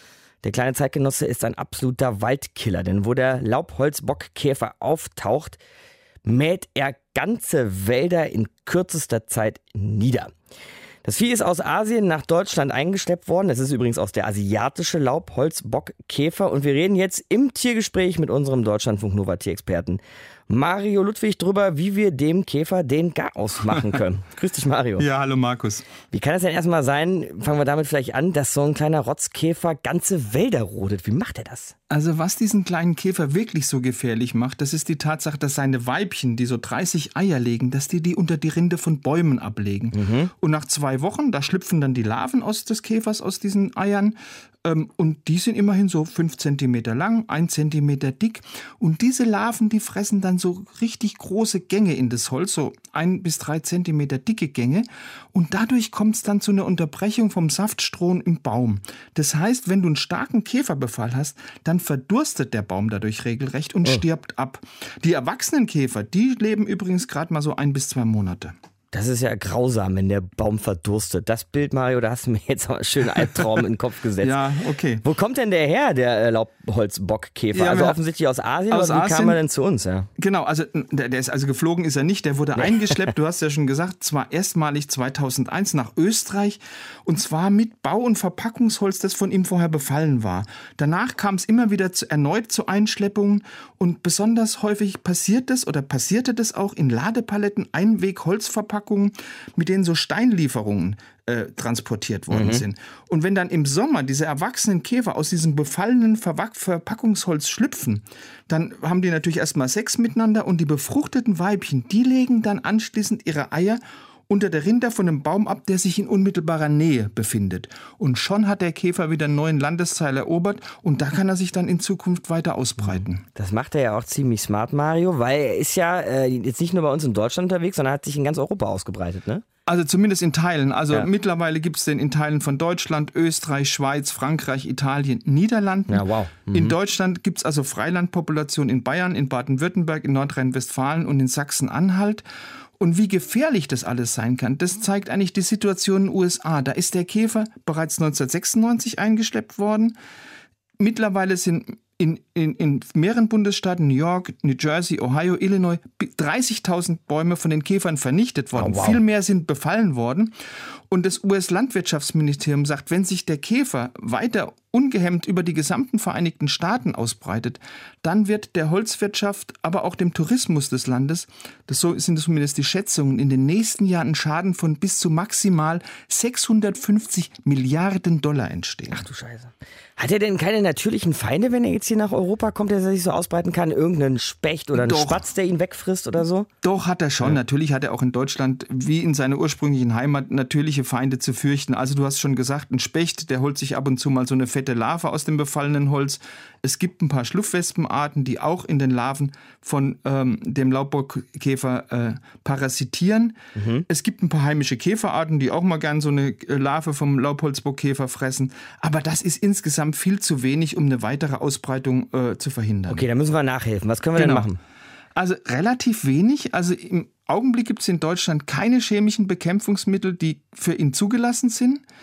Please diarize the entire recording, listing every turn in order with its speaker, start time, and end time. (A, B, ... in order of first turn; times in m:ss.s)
0:00.4-0:05.6 A
0:06.3-0:10.3 A
0:11.0-0:25.1 A
0:23.7-0:24.0 B
0:25.0-0:25.9 B
0:26.1-0:31.7 A
0:31.9-1:08.5 B
0:39.9-0:40.3 A
1:08.9-1:14.4 A
1:14.2-1:15.0 B
1:15.0-1:20.1 A
1:17.5-1:18.0 B
1:18.7-1:19.4 B
1:20.2-2:03.2 B
1:22.6-1:23.1 A
1:42.3-1:42.6 A
2:02.8-2:09.4 A
2:09.7-2:22.2 B
2:15.9-2:16.8 A
2:22.8-2:30.0 B
2:30.8-2:40.3 B
2:38.6-2:39.0 A
2:40.9-2:59.0 B
2:58.9-3:06.5 A
3:04.7-3:05.2 B
3:06.6-3:23.4 B
3:23.6-3:23.8 A
3:23.9-3:33.1 B
3:32.9-3:34.6 A
3:34.2-3:34.5 B
3:35.2-3:41.8 B